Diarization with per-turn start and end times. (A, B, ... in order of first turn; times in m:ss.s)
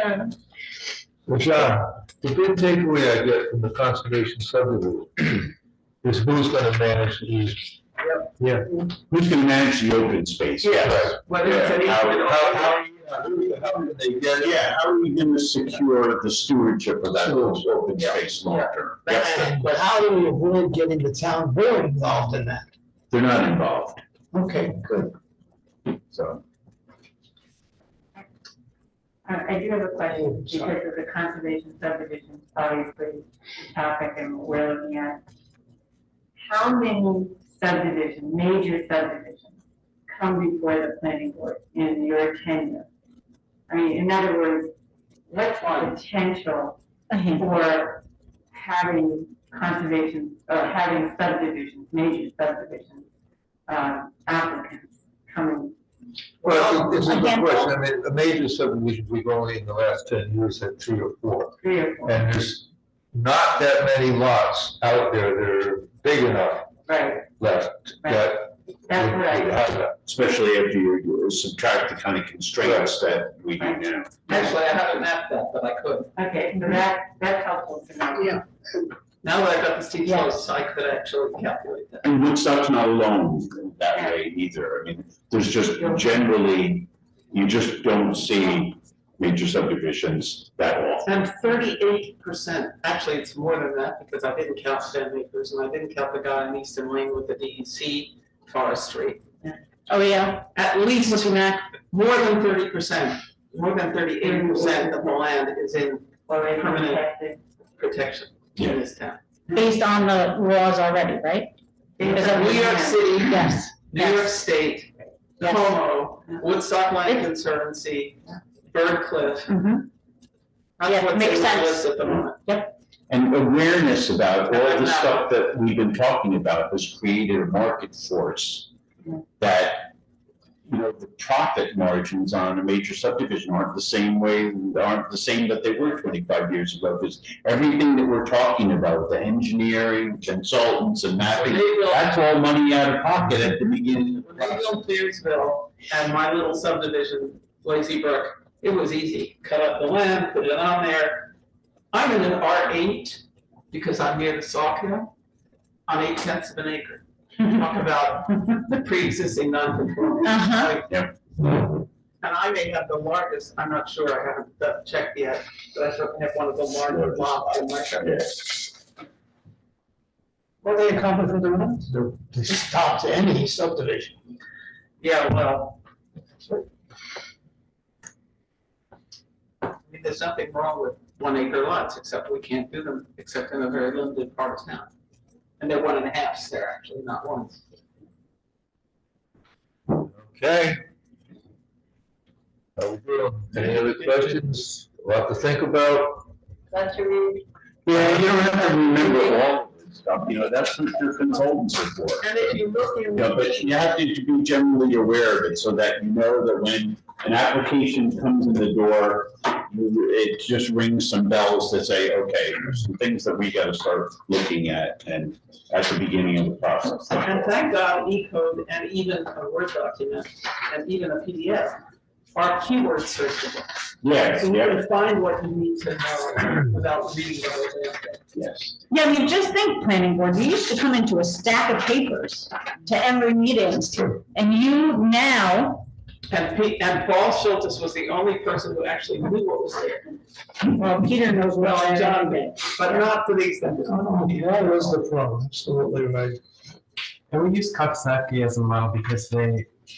0:01.2-0:05.5 A
0:06.0-0:07.6 A
0:08.4-0:08.6 A
0:08.9-0:12.3 B
0:10.6-0:12.8 C
0:10.8-0:11.2 A
0:12.1-0:14.7 A
0:14.4-0:19.4 B
0:17.9-0:19.9 C
0:19.4-0:22.6 D
0:23.1-0:24.0 B
0:26.1-0:26.4 B
0:29.2-0:35.2 E
0:36.4-0:39.6 E
0:40.1-0:42.9 E
0:43.7-0:44.7 E
0:45.3-0:46.8 E
0:47.1-0:47.4 F
0:47.3-0:53.0 E
0:53.7-0:55.8 E
0:56.4-1:06.7 A
0:56.8-0:57.7 F
1:01.6-1:02.2 E
1:06.8-1:07.3 E
1:07.4-1:09.9 A
1:08.0-1:08.3 E
1:08.9-1:09.6 E
1:10.0-1:14.3 B
1:12.6-1:12.9 A
1:13.6-1:14.5 E
1:14.2-1:16.1 C
1:16.1-1:18.4 E
1:19.2-1:22.1 C
1:20.1-1:20.4 F
1:22.0-1:31.1 B
1:31.0-1:39.2 C
1:39.9-1:40.4 F
1:40.5-1:47.1 C
1:44.2-1:45.2 E
1:46.3-1:47.4 E
1:47.8-1:49.2 C
1:49.5-1:51.6 F
1:52.0-1:53.0 E
1:52.0-1:59.5 C
1:52.1-1:52.6 F
1:53.2-1:54.3 F
1:55.4-1:55.7 F
1:59.5-1:59.8 F
2:00.8-2:02.4 C
2:00.8-2:01.9 F
2:02.4-2:02.7 F
2:03.1-2:08.7 B
2:04.5-2:05.3 C
2:09.4-2:09.9 B
2:10.6-2:24.8 B
2:21.3-2:22.1 C
2:24.2-2:31.3 C
2:31.9-2:35.1 C
2:35.9-2:40.9 C
2:40.2-2:40.7 F
2:40.9-2:41.1 B
2:42.2-2:48.2 C
2:46.8-2:48.6 B
2:51.9-2:54.1 D
2:55.0-2:55.8 C
2:59.8-3:04.9 C
3:05.6-3:07.6 C
3:10.0-3:10.8 A
3:12.8-3:16.3 A
3:17.8-3:22.5 B
3:17.9-3:18.3 A
3:22.2-3:23.7 C
3:23.1-3:37.5 B
3:37.1-3:41.8 C
3:42.3-3:43.7 C
3:44.0-3:44.8 B
3:44.3-3:48.2 C
3:48.3-3:48.7 B
3:48.9-3:55.9 F
3:56.3-4:00.1 C
4:00.6-4:03.0 F
4:01.6-4:04.9 C
4:03.9-4:06.4 D
4:07.3-4:09.7 G